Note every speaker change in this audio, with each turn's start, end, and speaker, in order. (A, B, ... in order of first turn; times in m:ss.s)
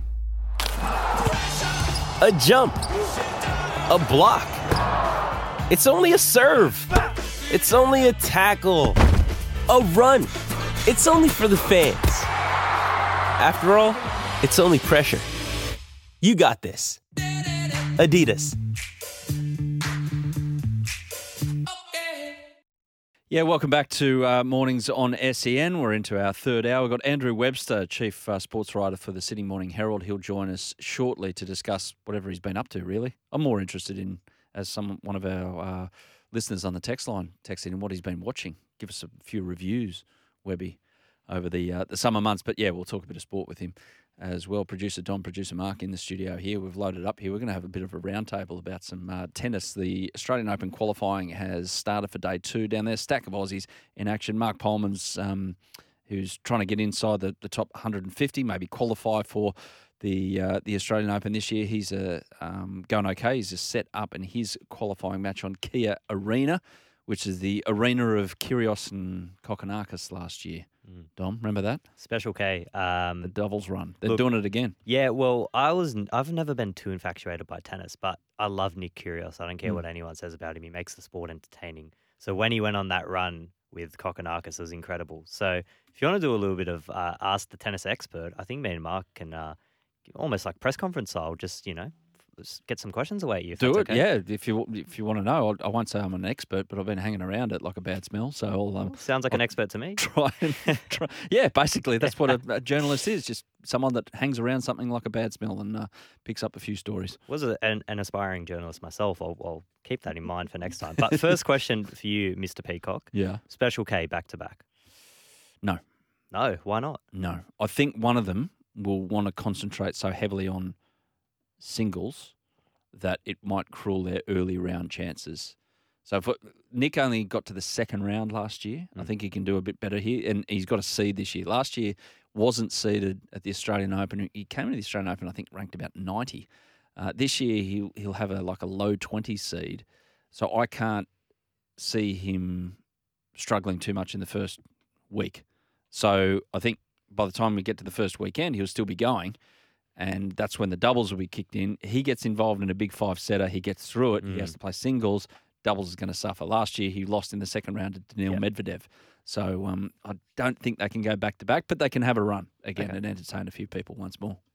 0:02.2-0:02.8 A
0:03.9-0:04.6 A
0:05.7-0:07.0 A
0:07.5-0:09.0 A
0:09.7-0:10.3 A
0:10.8-0:12.3 A
0:13.4-0:15.2 A
0:16.2-0:17.0 A
0:17.8-0:18.6 A
0:23.3-1:10.6 B
1:11.2-1:11.8 B
1:12.0-1:13.3 C
1:13.2-1:14.7 B
1:14.0-1:14.3 C
1:14.8-1:34.1 C
1:33.6-1:47.2 B
1:38.8-1:40.0 C
1:47.3-1:54.6 C
1:53.1-1:53.4 B
1:56.3-1:57.0 C
1:57.1-2:00.8 B
2:01.6-2:02.3 B
2:02.9-2:21.1 B
2:21.8-2:22.8 B
2:23.3-2:29.4 B
2:30.0-2:44.4 B
2:34.2-2:34.6 C